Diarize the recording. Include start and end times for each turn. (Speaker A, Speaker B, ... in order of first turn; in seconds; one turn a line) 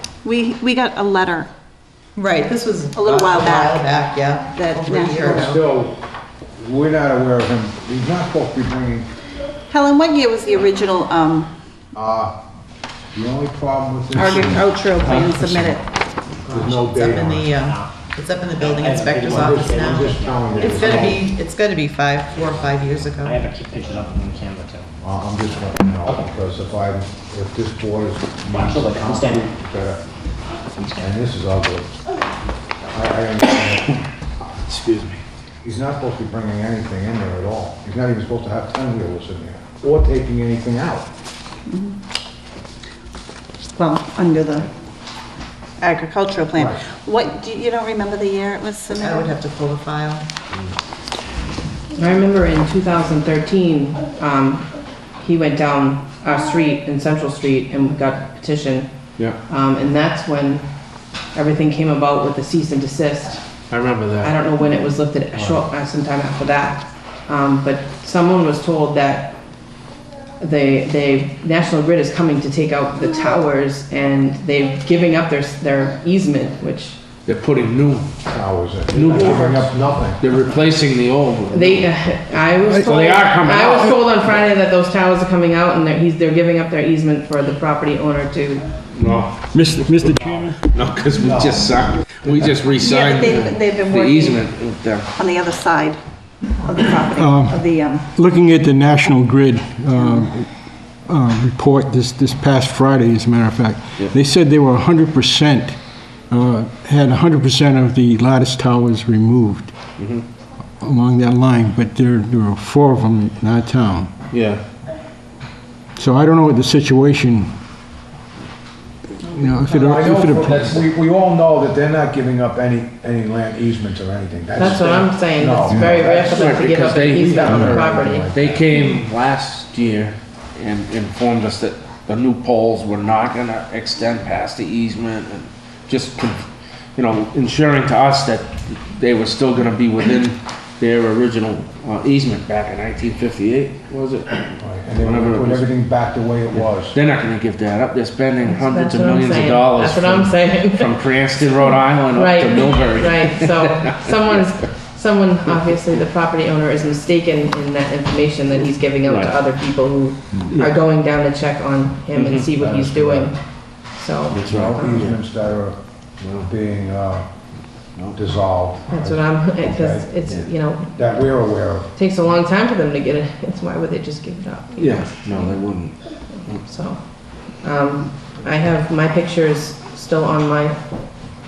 Speaker A: 0.2-1.5
Speaker B: 2.2-5.6
Speaker A: 2.9-3.8
Speaker A: 4.5-5.3
Speaker C: 5.2-6.0
Speaker C: 6.6-9.1
Speaker A: 9.7-11.5
Speaker C: 11.9-12.3
Speaker C: 13.2-14.7
Speaker A: 14.2-15.8
Speaker D: 15.1-15.7
Speaker B: 16.5-23.4
Speaker C: 16.5-17.6
Speaker E: 17.6-17.9
Speaker E: 18.6-21.1
Speaker C: 19.2-21.3
Speaker E: 23.2-24.9
Speaker C: 25.0-30.0
Speaker E: 26.1-26.3
Speaker E: 28.5-29.5
Speaker E: 30.8-31.1
Speaker C: 30.9-32.0
Speaker C: 32.9-34.1
Speaker D: 34.6-35.2
Speaker C: 35.6-41.1
Speaker A: 41.7-42.0
Speaker A: 43.8-44.7
Speaker A: 45.8-49.3
Speaker C: 46.5-46.8
Speaker B: 48.9-50.3
Speaker F: 52.0-58.9
Speaker F: 59.5-60.7
Speaker F: 61.3-63.5
Speaker D: 63.7-64.3
Speaker F: 64.2-69.4
Speaker F: 70.4-77.0
Speaker D: 77.3-78.2
Speaker C: 78.3-80.2
Speaker D: 78.9-81.9
Speaker F: 81.5-88.7
Speaker D: 82.7-84.0
Speaker D: 88.9-89.4
Speaker G: 89.5-90.6
Speaker D: 90.5-95.1
Speaker A: 92.8-94.4
Speaker A: 95.2-96.0
Speaker A: 96.6-98.1
Speaker G: 97.2-100.5
Speaker G: 101.0-109.8
Speaker D: 110.0-110.2
Speaker G: 110.8-114.1
Speaker D: 114.3-114.6
Speaker G: 116.0-117.5
Speaker G: 119.2-120.7
Speaker C: 119.7-128.7
Speaker D: 120.0-120.8
Speaker F: 124.6-128.3
Speaker D: 126.0-145.8
Speaker G: 127.5-127.8
Speaker C: 144.6-147.0
Speaker D: 146.5-154.4
Speaker F: 148.4-150.9
Speaker F: 152.1-165.1
Speaker D: 159.1-159.3
Speaker D: 160.5-160.7
Speaker D: 162.1-162.5
Speaker C: 162.6-163.3
Speaker D: 164.3-165.2
Speaker C: 164.5-165.8
Speaker D: 166.2-166.5
Speaker C: 166.4-167.2
Speaker C: 168.1-170.3
Speaker F: 168.9-170.9
Speaker C: 170.9-171.9
Speaker F: 171.9-175.5
Speaker D: 174.8-176.6
Speaker F: 176.3-180.8